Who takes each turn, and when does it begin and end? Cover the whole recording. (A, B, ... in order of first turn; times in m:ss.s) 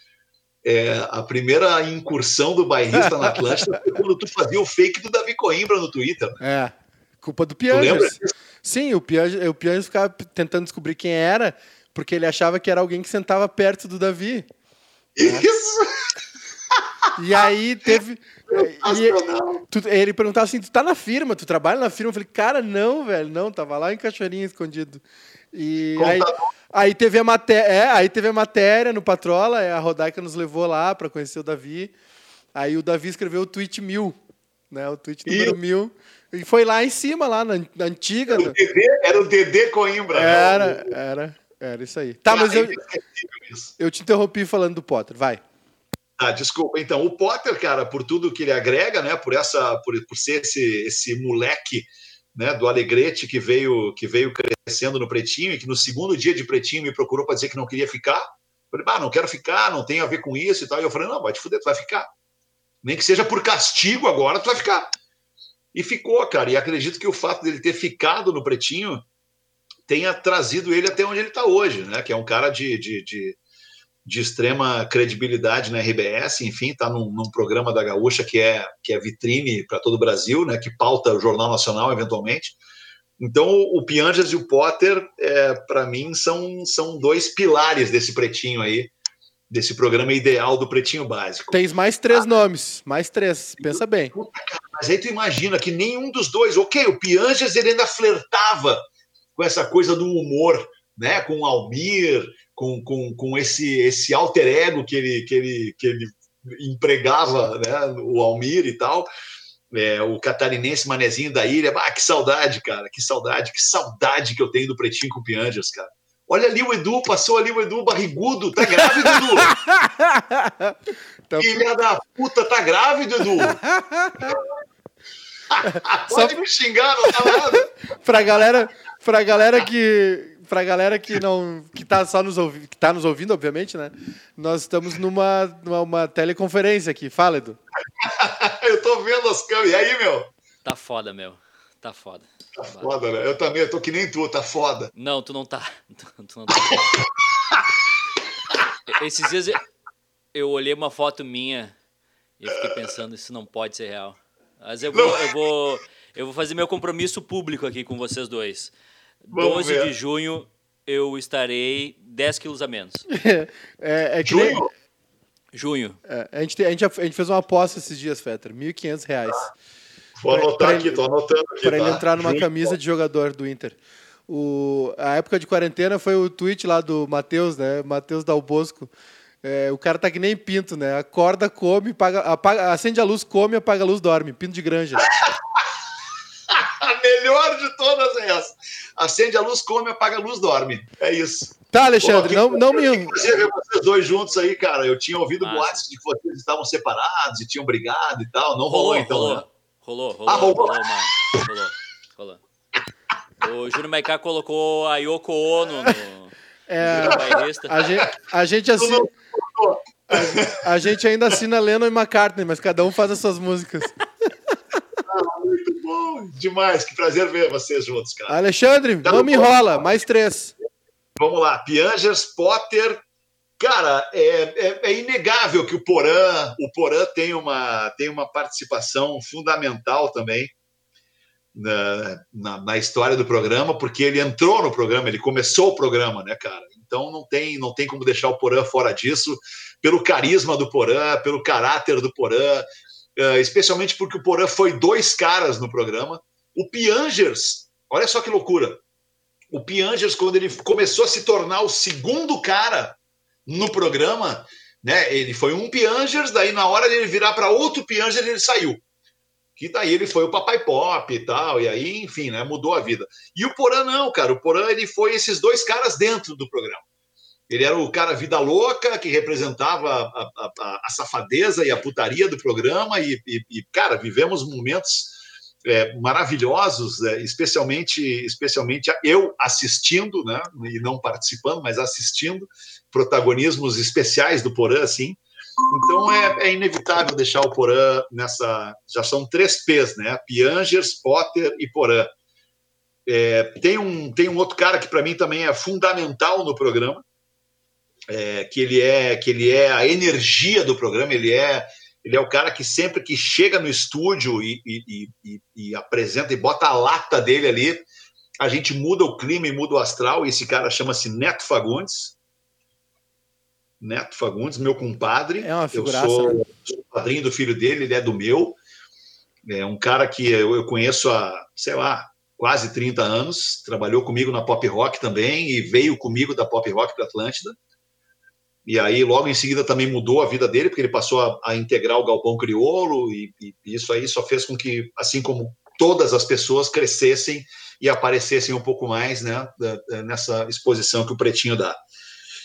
0:00.6-0:06.4 A
0:03.0-0:03.3 B
0:06.4-0:14.5 B
0:07.7-0:08.3 A
0:15.2-0:15.9 A
0:17.2-0:31.9 B
0:18.5-0:19.6 A
0:26.0-0:26.5 A
0:32.6-0:34.2 B
0:34.7-0:38.6 B
0:35.3-0:35.6 A
0:38.3-0:41.0 A
0:40.1-0:42.8 B
0:42.3-0:43.7 A
0:43.8-0:45.4 B
0:46.2-1:02.1 A
1:02.8-1:04.9 A
1:05.7-1:09.1 A
1:09.9-1:13.4 A
1:14.0-1:22.6 A
1:23.2-1:28.9 A
1:29.5-1:31.6 A
1:31.5-1:34.1 B
1:33.6-1:38.8 A
1:39.4-1:49.1 A
1:49.7-1:59.6 A
1:58.7-2:00.8 B
2:01.3-2:01.6 B
2:01.4-2:03.6 A
2:03.4-2:04.4 B
2:05.5-2:07.7 A
2:05.6-2:06.5 B
2:07.1-2:17.6 B
2:18.0-2:20.3 A
2:20.6-2:22.9 C
2:22.6-2:24.9 A
2:24.9-2:27.1 C
2:28.9-2:29.6 C
2:30.3-2:31.7 C
2:32.4-2:38.7 C
2:34.9-2:35.4 A
2:39.2-2:43.1 C
2:39.3-2:39.9 A
2:43.1-2:44.6 B
2:44.2-2:44.7 A
2:45.5-2:46.0 C
2:46.1-2:49.5 B
2:50.2-2:52.8 A
2:50.3-2:51.0 B
2:51.6-2:53.8 B
2:54.3-2:58.9 B
2:59.4-3:05.1 B
3:05.0-3:05.7 A
3:06.5-3:19.4 A
3:11.7-3:13.2 B
3:15.4-3:15.8 C
3:18.7-3:22.4 C
3:20.3-3:20.8 A
3:23.4-3:28.1 C
3:26.7-3:29.1 B
3:27.0-3:27.3 A
3:28.8-3:30.6 A
3:30.1-3:34.0 B
3:35.0-3:38.4 A
3:38.3-3:40.5 B
3:39.0-3:40.0 A
3:41.2-3:43.0 A
3:43.6-3:50.5 A
3:51.5-4:08.8 A
4:09.5-4:18.8 A
4:19.6-4:26.9 A
4:27.5-4:52.1 A
4:53.1-4:57.0 A
4:58.1-5:07.9 A
5:08.4-5:12.2 A
5:13.8-5:18.6 A
5:15.4-5:16.4 B
5:19.5-5:27.6 A
5:28.7-5:41.8 A